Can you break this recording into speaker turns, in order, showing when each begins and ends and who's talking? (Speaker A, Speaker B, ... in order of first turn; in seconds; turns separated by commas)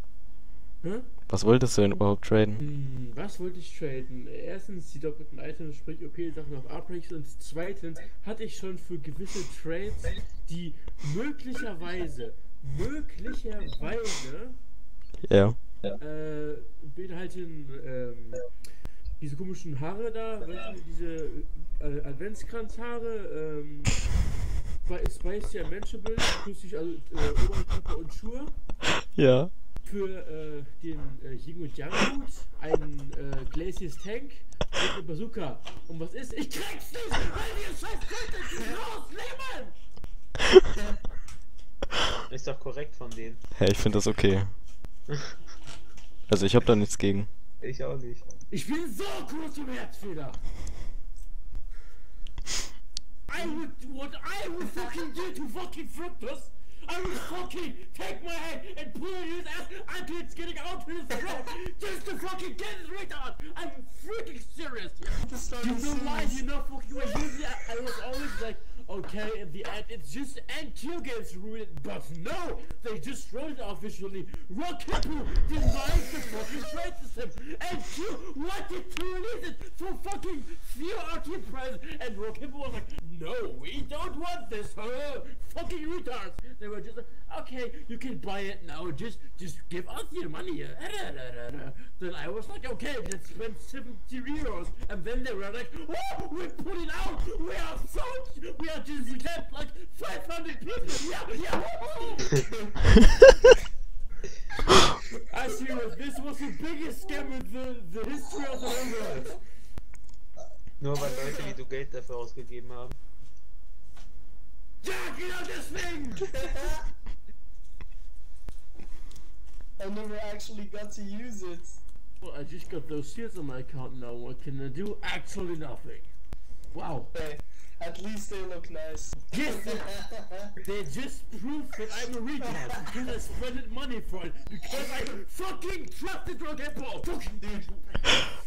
Speaker A: 0.8-1.3, Speaker B: 1.3-2.6, Speaker A: 2.6-14.6, Speaker B: 15.2-15.6, Speaker A: 15.9-24.2, Speaker A: 24.8-28.6, Speaker B: 29.1-29.5, Speaker A: 29.8-39.8, Speaker C: 42.3-43.5, Speaker B: 43.5-44.6, Speaker C: 45.1-45.4, Speaker B: 46.3-47.3, Speaker C: 47.6-48.2, Speaker A: 48.5-50.5, Speaker A: 53.3-102.3, Speaker D: 65.2-66.4, Speaker A: 105.3-109.5, Speaker C: 110.8-113.0, Speaker D: 110.9-111.6, Speaker A: 114.8-116.7, Speaker D: 119.8-121.8, Speaker A: 122.2-126.1, Speaker A: 126.7-127.1, Speaker D: 127.1-130.5, Speaker A: 129.3-130.1, Speaker A: 130.6-138.0, Speaker D: 137.4-138.0